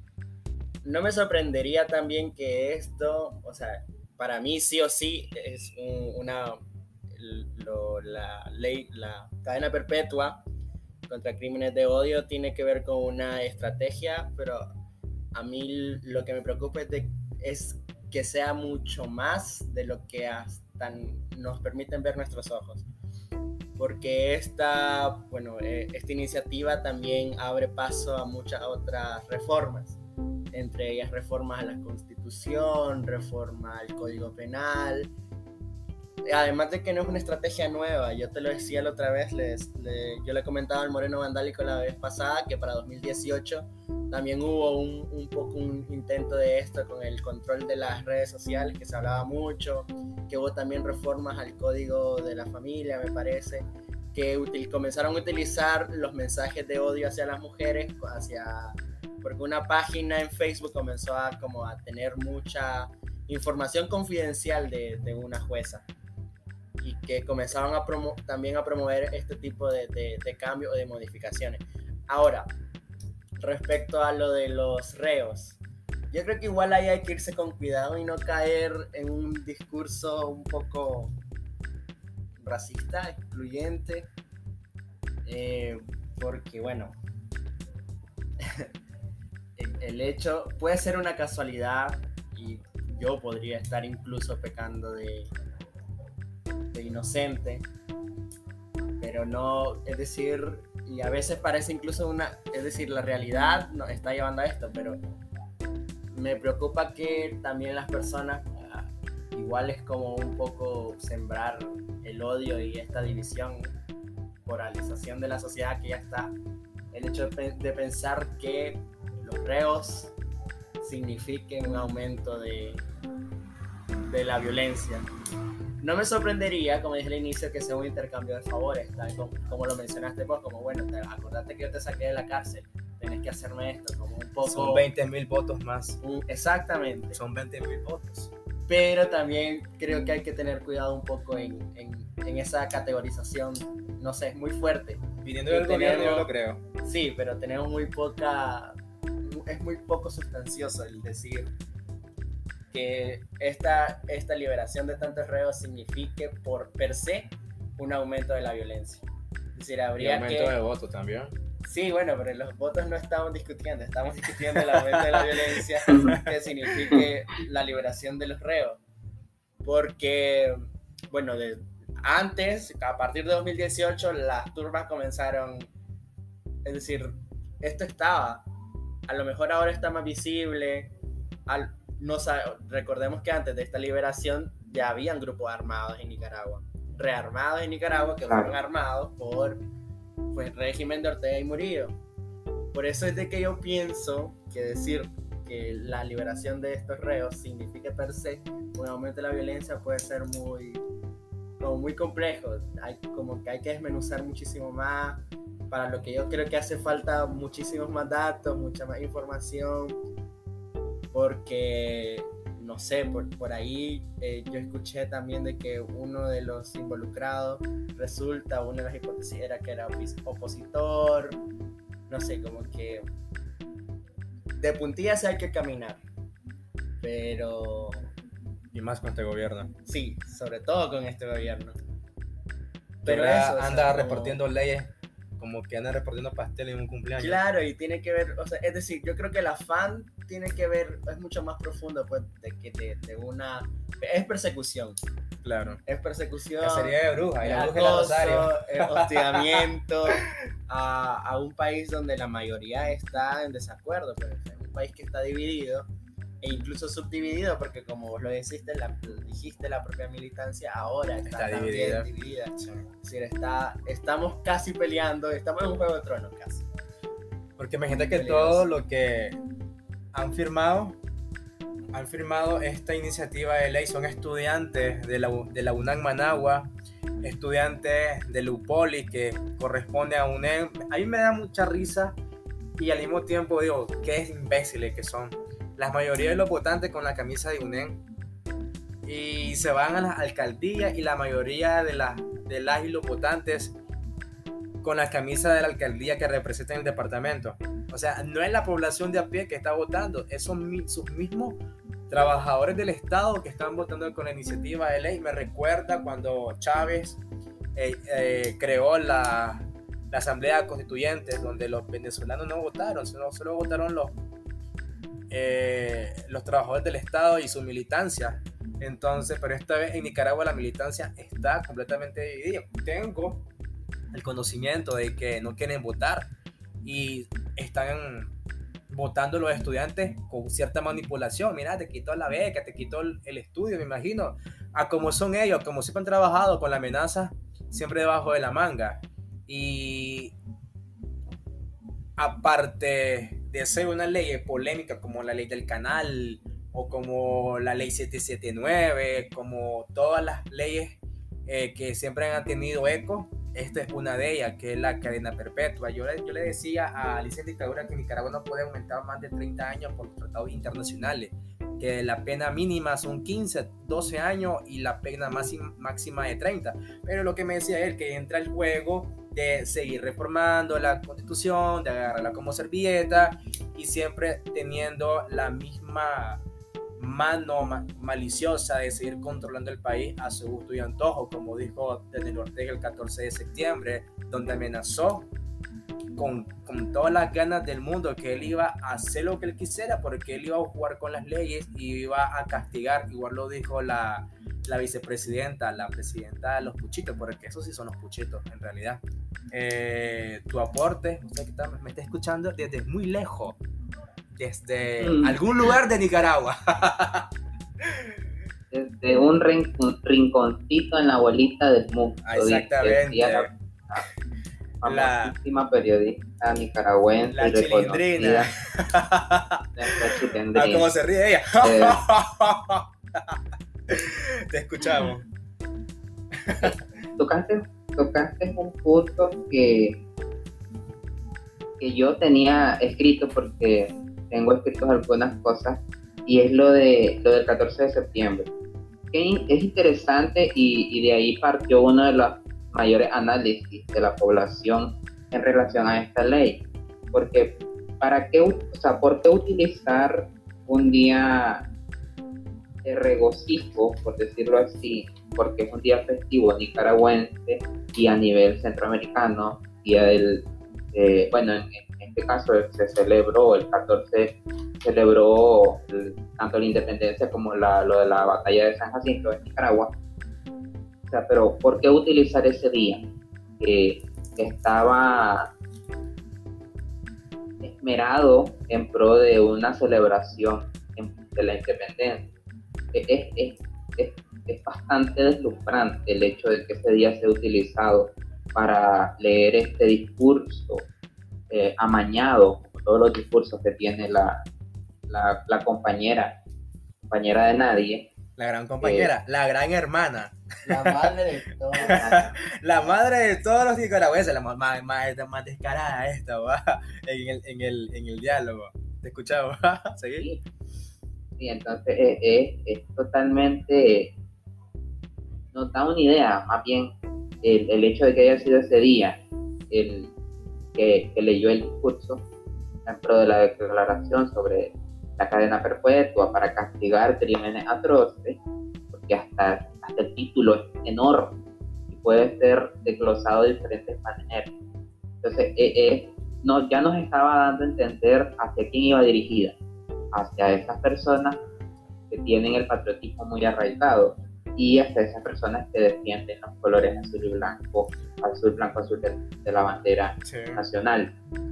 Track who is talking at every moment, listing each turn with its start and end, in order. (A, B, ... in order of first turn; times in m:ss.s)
0:00.8-0:06.6 A
0:07.1-0:10.4 A
0:11.1-0:14.7 A
0:15.3-0:22.9 A
0:23.8-0:30.0 A
0:30.5-0:35.1 A
0:36.2-1:05.8 A
1:06.8-1:12.5 A
1:13.4-1:15.6 A
1:16.1-1:21.2 A
1:22.4-1:24.1 A
1:25.2-1:27.0 A
1:28.4-1:28.7 A
1:29.6-1:35.3 A
1:36.7-1:37.6 A
1:39.0-1:45.0 A
1:46.1-1:53.7 A
1:54.4-1:56.3 A
1:56.9-2:00.1 A
2:00.8-2:02.8 A
2:04.1-2:05.0 A
2:05.8-2:14.9 A
2:14.4-2:16.0 B
2:16.0-2:17.2 A
2:17.1-2:18.3 B
2:18.7-2:26.3 A
2:25.2-2:26.6 B
2:26.8-2:31.5 A
2:32.7-2:39.0 A
2:39.5-2:40.6 A
2:40.0-2:41.3 B
2:41.6-2:48.8 A
2:44.5-2:46.2 B
2:49.6-2:55.7 A
2:56.6-2:58.4 A
2:59.1-3:00.9 A
3:01.5-3:09.6 A
3:10.3-3:12.0 A
3:12.7-3:20.8 A
3:21.6-3:30.0 A
3:31.1-3:41.4 A
3:42.1-3:43.0 A
3:44.6-3:46.0 A
3:47.0-3:48.1 A
3:48.7-3:49.7 B
3:49.8-3:51.8 A
3:53.0-3:54.4 A
3:53.0-3:57.4 B
3:57.2-4:05.0 A
4:05.4-4:05.8 B
4:05.8-4:15.9 A
4:06.6-4:09.6 B
4:16.4-4:26.6 A
4:21.3-4:22.8 B
4:27.6-4:29.4 B
4:27.9-4:28.7 A
4:30.1-4:31.0 B
4:31.9-4:36.7 B
4:37.2-4:42.1 B
4:42.8-4:48.0 B
4:49.0-4:53.8 B
4:54.8-5:07.2 B
5:07.7-5:14.1 B
5:15.3-5:23.4 B
5:24.1-5:26.3 B
5:26.8-5:28.3 B
5:28.9-5:40.3 B
5:42.2-6:16.4 B
6:17.0-6:25.3 B
6:26.2-6:43.6 B
6:44.4-6:47.3 B
6:45.0-6:45.4 C
6:48.7-6:54.0 C
6:52.2-6:53.5 B
6:54.8-6:58.5 C
6:54.8-6:55.3 B
6:57.3-7:03.4 B
6:59.8-7:00.9 C
7:01.6-7:02.0 C
7:03.9-7:05.2 B
7:06.4-7:06.8 B
7:06.6-7:10.0 C
7:11.8-7:18.5 C
7:19.1-7:26.6 C
7:27.1-7:31.6 C
7:32.8-7:49.9 C
7:51.1-7:53.0 C
7:53.6-7:55.5 C
7:57.6-8:02.2 C
8:02.9-8:10.8 C
8:11.5-8:14.4 C
8:15.1-8:16.3 C
8:17.1-8:18.0 C
8:18.4-8:21.1 B
8:18.8-8:19.1 C
8:20.6-8:22.2 A
8:21.8-8:30.3 B
8:22.0-8:22.2 C
8:31.4-8:34.1 C
8:35.5-8:36.9 C
8:37.4-8:39.2 C
8:39.7-8:40.1 C
8:40.8-8:42.2 C
8:42.8-8:48.4 C
8:48.9-8:51.3 C
8:51.9-8:54.5 C
8:55.2-8:59.5 C
9:00.1-9:01.4 C
9:02.1-9:11.1 C
9:10.2-9:10.6 B